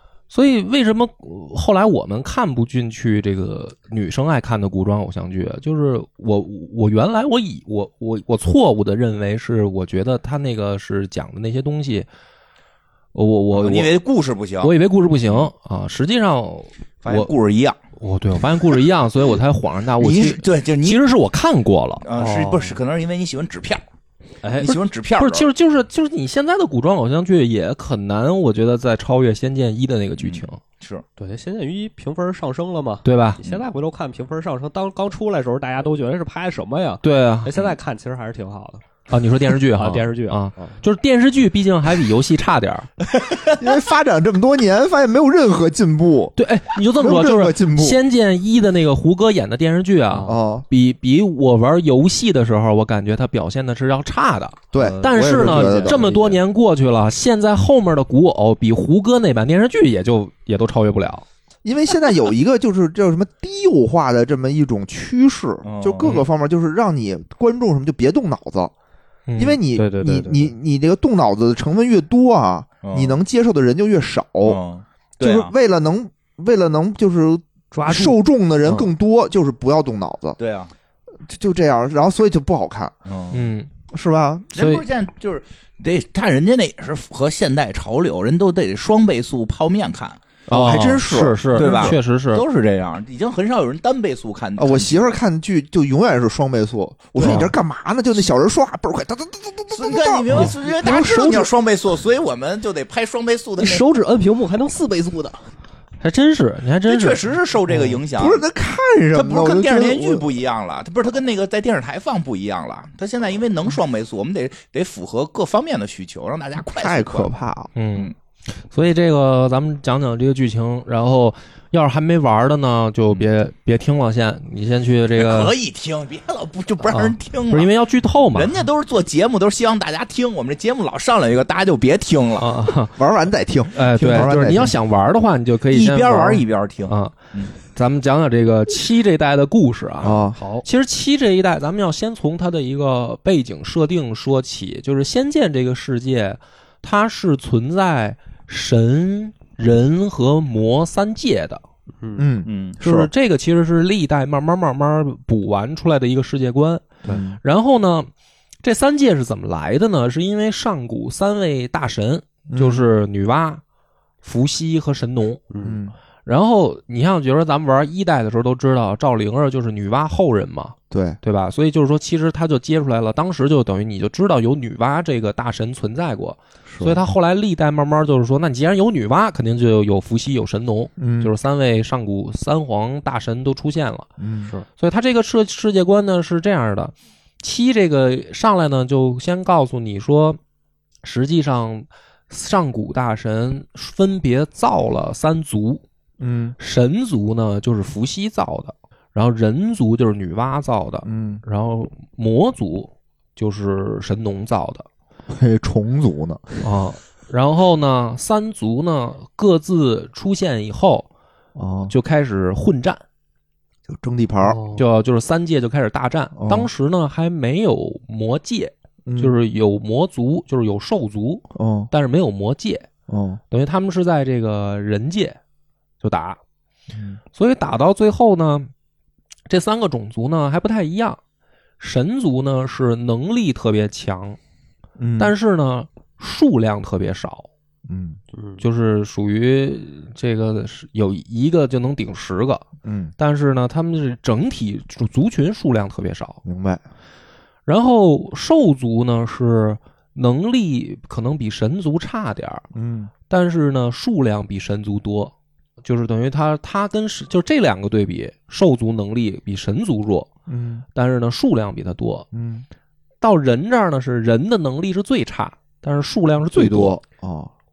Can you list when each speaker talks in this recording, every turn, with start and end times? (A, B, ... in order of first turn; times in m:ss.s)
0:00.3-0:12.1 A
0:13.1-0:13.9 A
0:13.5-0:14.7 B
0:14.6-0:17.3 A
0:17.0-0:17.8 B
0:18.0-0:22.0 A
0:20.0-0:21.0 B
0:22.0-0:23.8 B
0:22.2-0:22.8 C
0:24.4-0:24.7 C
0:24.5-0:25.5 B
0:24.7-0:30.6 A
0:30.2-0:31.0 B
0:31.2-0:38.8 C
0:33.0-0:33.4 A
0:37.0-0:37.6 A
0:39.1-0:42.9 A
0:39.5-0:40.8 C
0:43.1-0:43.6 B
0:43.5-0:46.4 D
0:46.4-1:01.2 A
0:47.0-0:48.0 D
0:50.1-0:50.4 C
0:50.2-0:50.6 D
0:54.7-0:56.0 D
0:54.8-0:56.4 C
1:01.6-1:08.7 D
1:05.6-1:06.1 B
1:09.3-1:09.6 A
1:09.4-1:14.6 D
1:09.8-1:10.5 C
1:12.8-1:13.2 B
1:14.4-1:15.5 B
1:15.2-1:20.4 D
1:17.7-1:18.2 C
1:20.4-1:20.7 B
1:21.3-1:23.0 D
1:23.1-1:23.5 B
1:23.3-1:23.7 A
1:23.9-1:24.5 D
1:24.5-1:30.2 B
1:24.6-1:24.8 A
1:30.5-1:32.0 D
1:30.5-1:32.4 A
1:31.6-1:35.2 B
1:34.6-1:41.5 D
1:37.2-1:37.4 C
1:39.7-1:43.8 B
1:43.6-1:45.4 C
1:46.0-1:47.2 A
1:46.9-1:48.4 B
1:47.9-1:50.3 D
1:49.1-1:57.3 B
1:56.8-1:57.7 D
1:57.8-1:58.1 A
1:58.7-2:05.5 A
2:05.2-2:07.7 B
2:06.8-2:08.7 A
2:08.3-2:12.5 B
2:12.4-2:13.0 A
2:13.0-2:14.8 D
2:13.7-2:31.6 A
2:15.7-2:17.5 B
2:20.0-2:20.4 D
2:20.4-2:20.6 C
2:32.0-2:32.3 C
2:32.2-2:33.1 D
2:32.4-2:32.8 B
2:32.8-2:38.1 A
2:37.0-2:37.4 D
2:38.6-2:43.6 A
2:42.5-2:42.8 D
2:44.2-2:45.4 A
2:45.5-2:45.8 C
2:45.6-2:46.0 D
2:46.2-3:04.1 A
2:50.9-2:51.2 D
2:56.7-2:57.0 D
3:01.0-3:01.3 D
3:04.2-3:04.5 D
3:04.8-3:10.4 A
3:11.0-3:15.8 A
3:16.2-3:16.6 D
3:16.6-3:24.9 A
3:21.0-3:21.4 D
3:25.3-3:26.6 D
3:26.6-3:31.1 A
3:31.6-3:31.9 D
3:31.9-3:33.0 A
3:33.9-3:34.6 D
3:34.4-3:34.8 C
3:34.8-3:42.9 A
3:36.4-3:36.7 D
3:39.0-3:39.4 D
3:41.5-3:41.9 D
3:43.1-3:43.4 D
3:43.5-3:45.4 A
3:46.0-3:46.4 A
3:46.9-3:47.2 D
3:47.3-3:48.7 A
3:49.5-3:51.2 A
3:51.8-3:54.4 A
3:55.0-3:55.3 D
3:55.2-3:57.5 A
3:57.9-3:58.2 D
3:58.4-3:58.6 C
3:58.6-4:02.6 A
4:02.8-4:03.1 D
4:03.2-4:06.4 A
4:06.4-4:06.8 D
4:07.7-4:12.6 A
4:12.7-4:13.1 D
4:13.3-4:15.3 A
4:15.8-4:20.3 A
4:20.5-4:20.8 D
4:21.0-4:22.3 A
4:22.3-4:22.7 D
4:23.2-4:27.0 A
4:26.5-4:27.5 D